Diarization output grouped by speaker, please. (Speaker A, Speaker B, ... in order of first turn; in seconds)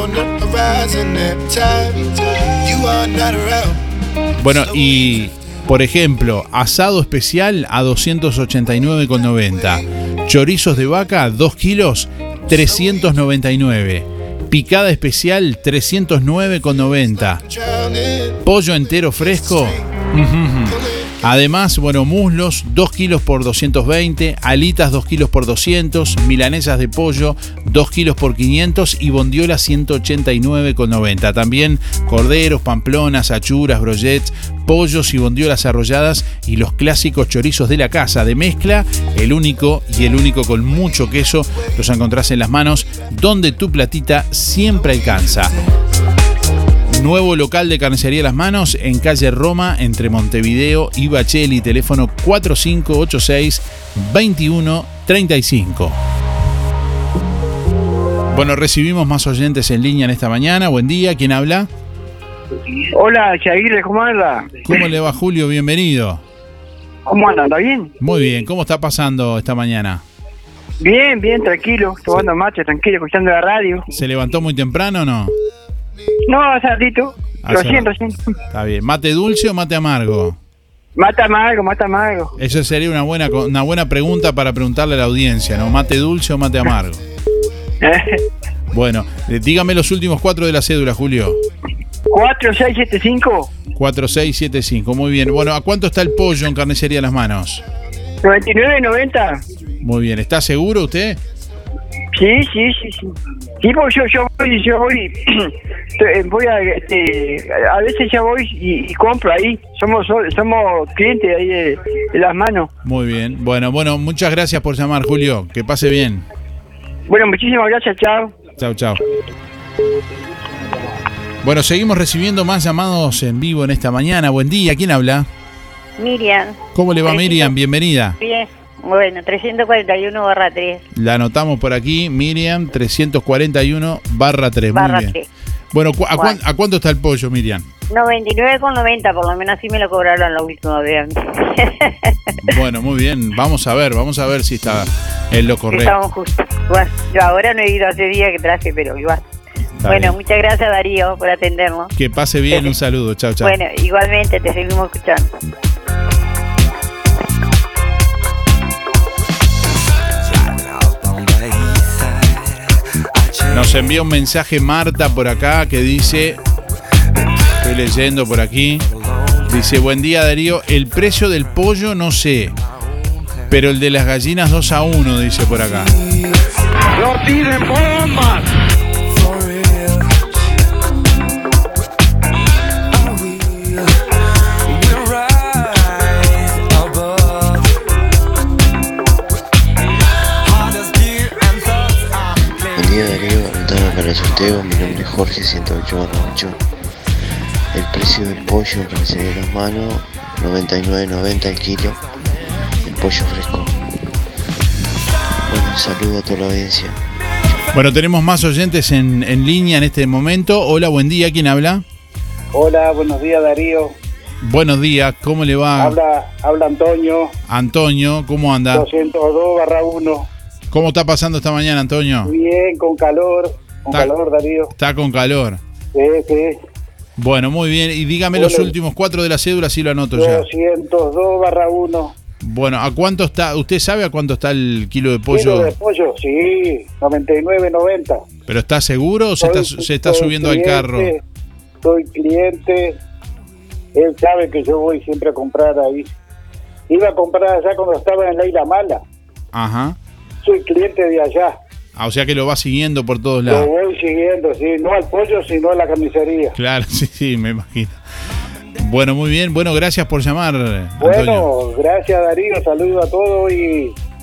Speaker A: 4.4-17.4, 18.4-45.6, 46.9-56.0, 58.3-61.7, 64.7-66.2, 68.0-70.0, 73.9-75.3, 77.4-77.9, 78.5-80.4, 82.4-87.0, 88.7-91.4, 93.8-97.6, 99.8-101.2, 112.8-116.2, 118.6-119.0, 121.4-125.3, 126.8-128.2, 130.9-135.2, 135.7-137.7, 142.5-146.0, 149.8-150.2, 152.0-153.6, 163.5-166.4, 167.6-168.8, 169.5-172.6, 173.5-175.9, 207.7-211.8, 214.4-216.0, 217.5-218.9, 220.7-222.3, 224.7-225.6, 227.2-230.5, 232.4-235.8, 238.5-241.1, 249.5-250.0, 252.0-253.7, 256.6-258.0, 258.8-261.5
Speaker B: 62.9-64.6, 67.1-67.9, 70.8-73.9, 76.3-78.2, 81.0-82.3, 87.8-88.2, 92.1-93.5, 98.2-99.4, 102.2-103.1, 103.6-112.7, 117.1-118.3
Speaker C: 126.0-127.5, 128.2-130.8, 134.7-135.2, 137.9-141.9, 145.7-149.2, 149.9-151.9, 153.4-155.3
Speaker D: 192.7-196.6, 197.7-202.0, 202.8-203.8, 205.5-207.0
Speaker E: 212.5-213.9, 215.8-217.3, 218.7-220.2, 222.3-224.7, 225.9-226.6, 228.3-228.7, 230.2-232.1, 235.3-238.2, 239.4-241.2, 241.8-243.0, 244.0-246.1, 246.9-249.0, 250.4-251.6, 253.5-256.5, 261.0-263.9